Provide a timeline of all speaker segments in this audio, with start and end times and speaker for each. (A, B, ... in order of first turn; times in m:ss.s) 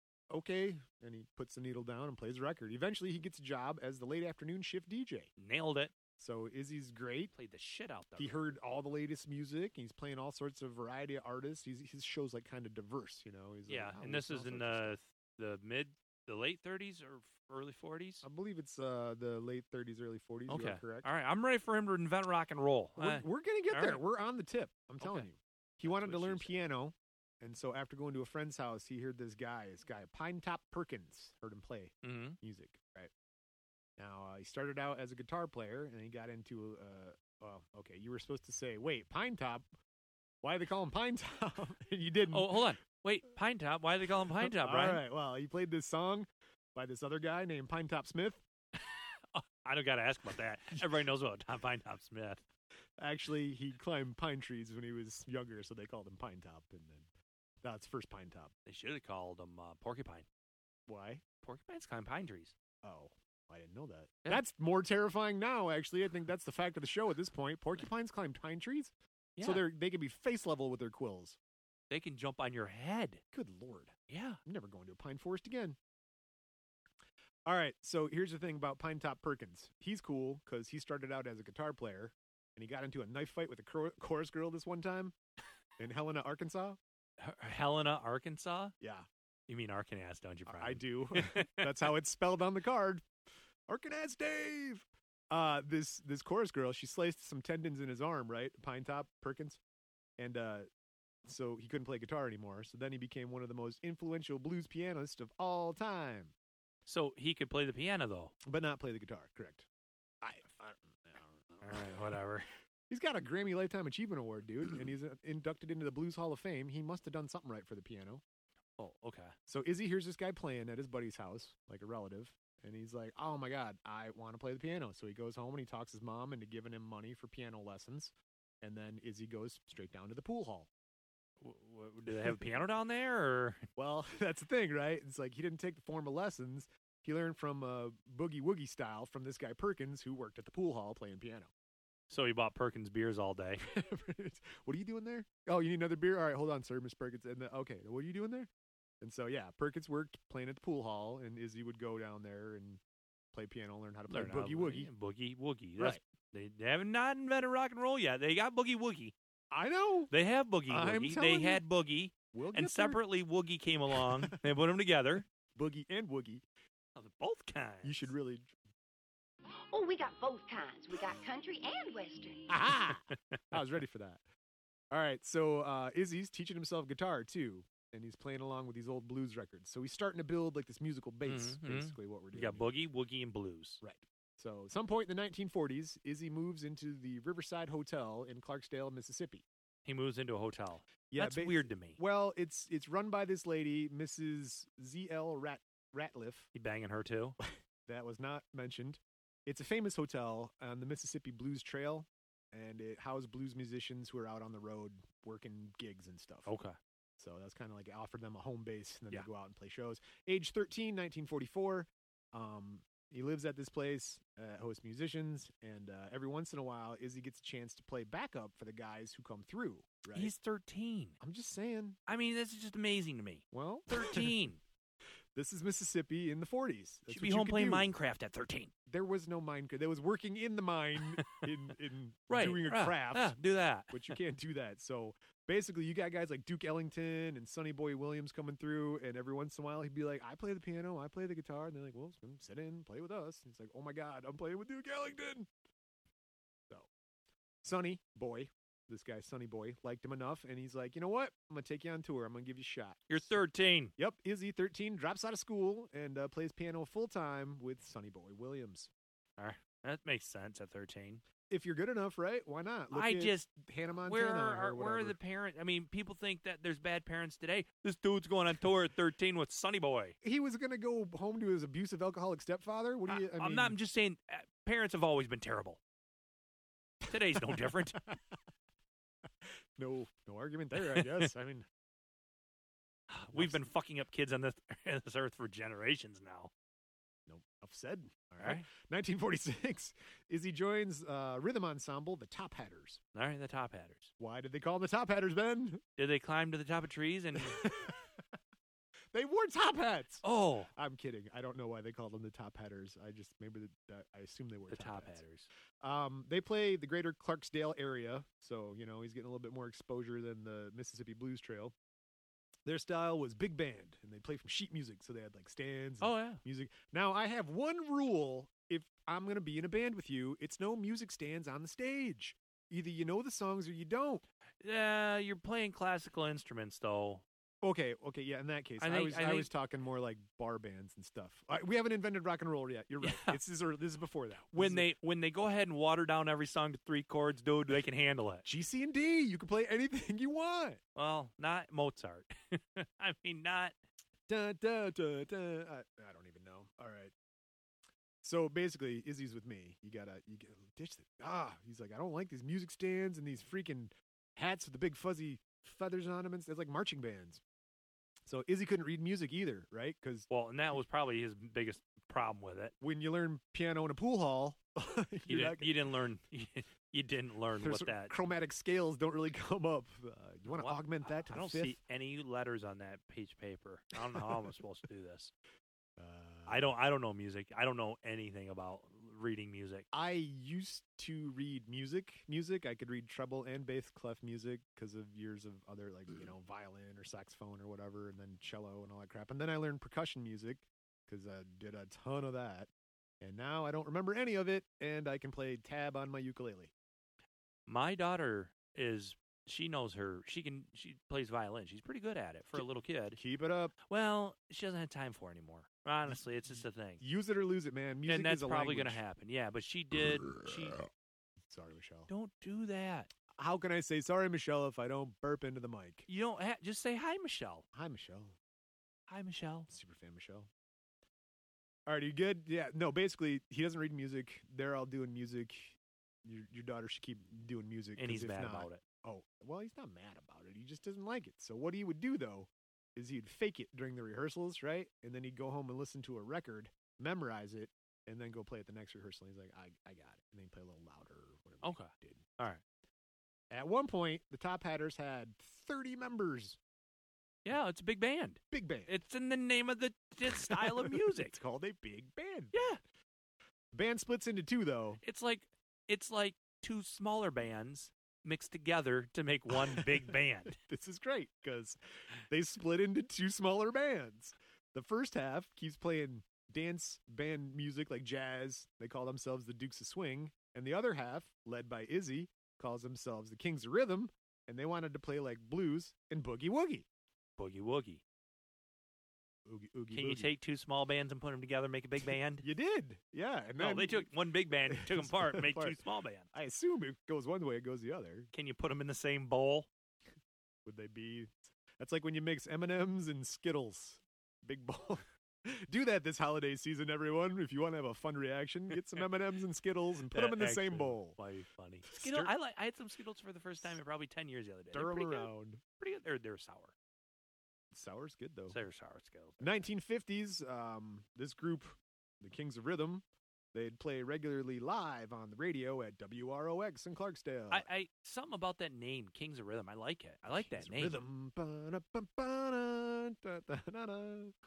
0:00.3-0:05.3 A
0:05.4-0:05.9 B
0:06.2-0:07.3 A
0:07.3-0:08.6 B
0:08.2-0:15.0 A
0:13.7-0:18.2 B
0:18.2-0:21.1 A
0:20.5-0:24.0 B
0:23.0-0:33.1 A
0:25.0-0:25.3 B
0:25.8-0:26.6 B
0:32.0-0:32.4 B
0:34.0-0:39.7 A
0:40.4-0:42.7 A
0:42.3-0:45.0 B
0:44.4-0:48.4 A
0:48.8-0:52.4 B
0:53.0-0:57.1 A
0:57.6-0:58.5 A
0:58.6-1:00.2 B
1:00.9-1:01.2 A
1:01.4-1:02.5 B
1:02.8-1:11.4 A
1:09.4-1:09.6 B
1:11.9-1:13.2 B
1:13.3-1:15.8 A
1:14.1-1:14.4 B
1:17.4-1:25.1 A
1:25.8-1:26.8 A
1:27.2-1:28.7 B
1:28.8-1:29.1 A
1:29.5-1:31.7 B
1:30.4-1:33.0 A
1:33.7-1:39.6 A
1:40.2-1:40.7 A
1:41.2-1:46.3 A
1:46.9-1:48.3 B
1:48.4-1:49.6 A
1:50.2-1:52.0 A
1:51.6-1:52.5 B
1:52.9-1:58.2 A
1:58.8-1:59.3 B
1:59.5-2:10.7 A
2:11.4-2:13.6 B
2:13.8-2:21.5 A
2:22.1-2:23.6 B
2:23.6-2:28.5 A
2:29.0-2:32.8 A
2:33.3-2:34.9 A
2:34.1-2:39.1 B
2:39.5-2:40.1 A
2:40.1-2:45.2 B
2:40.7-2:41.6 A
2:42.3-2:43.0 A
2:44.0-2:44.4 A
2:45.6-2:46.4 A
2:47.0-2:48.1 B
2:47.8-2:48.5 A
2:49.7-2:52.5 C
2:52.5-2:54.2 A
2:54.9-3:02.7 A
3:01.2-3:03.8 B
3:03.8-3:09.4 A
3:09.8-3:12.0 B
3:11.1-3:16.5 A
3:16.5-3:17.4 B
3:17.8-3:26.5 A
3:26.4-3:26.8 B
3:27.2-3:40.3 A
3:40.1-3:41.2 B
3:41.2-3:42.0 A
3:42.1-3:44.6 B
3:43.5-3:44.3 A
3:45.3-3:47.9 A
3:47.1-3:48.7 B
3:48.9-3:53.3 A
3:52.3-3:54.2 B
3:53.9-4:05.5 A
4:07.6-4:13.4 A
4:13.1-4:13.9 B
4:14.0-4:18.9 A
4:19.4-4:21.2 B
4:21.5-4:25.2 A
4:22.9-4:30.2 B
4:30.2-4:33.8 A
4:33.1-4:35.8 B
4:37.1-4:38.1 B
4:39.8-4:41.6 A
4:40.8-4:41.3 B
4:43.1-4:46.5 B
4:43.3-4:43.6 A
4:47.3-4:53.0 A
4:53.1-4:54.1 B
4:54.2-4:55.8 A
4:56.0-4:57.7 B
4:57.3-4:58.1 A
4:59.1-5:00.2 A
5:00.2-5:00.7 B
5:00.7-5:05.2 A
5:04.7-5:05.5 B
5:05.8-5:11.7 A
5:12.6-5:24.2 A
5:16.0-5:16.4 B
5:24.6-5:27.2 B
5:27.6-5:34.8 A
5:28.8-5:29.5 B
5:33.0-5:33.4 B
5:34.5-5:38.4 B
5:38.4-5:40.8 A
5:41.0-5:43.7 B
5:44.3-5:47.1 A
5:48.2-5:57.4 A
5:58.2-6:00.3 A
6:00.3-6:02.7 B
6:02.8-6:05.8 A
6:05.3-6:08.2 B
6:07.6-6:11.8 A
6:10.5-6:15.3 B
6:16.0-6:16.6 A
6:16.5-6:19.8 B
6:19.9-6:32.7 A
6:33.2-6:36.7 A
6:37.7-6:43.2 B
6:42.5-6:43.7 A
6:43.9-6:47.0 B
6:47.0-6:49.0 A
6:48.0-6:50.8 B
6:51.5-6:52.1 A
6:52.1-6:53.1 B
6:53.3-6:56.0 A
6:56.1-6:57.6 B
6:57.7-6:58.4 A
6:59.1-6:59.7 B
6:59.7-7:00.5 A
7:01.9-7:22.3 A
7:08.0-7:08.8 B
7:21.6-7:22.6 B
7:23.5-7:26.6 A
7:27.4-7:31.4 B
7:28.5-7:28.9 A
7:30.3-7:32.6 A
7:32.5-7:32.8 B
7:33.7-7:35.0 A
7:35.0-7:40.6 B
7:39.5-7:41.8 A
7:42.3-7:56.8 A
7:57.4-7:58.0 B
7:59.4-8:00.3 A
7:59.9-8:02.4 B
8:02.4-8:04.1 A
8:03.6-8:06.3 B
8:04.7-8:05.8 A
8:06.3-8:08.3 A
8:08.3-8:09.7 B
8:10.6-8:21.2 A
8:20.1-8:26.7 B
8:21.9-8:22.3 A
8:24.7-8:25.6 A
8:27.7-8:28.6 A
8:28.5-8:29.6 B
8:29.4-8:37.7 A
8:37.5-8:41.0 B
8:40.4-8:44.4 A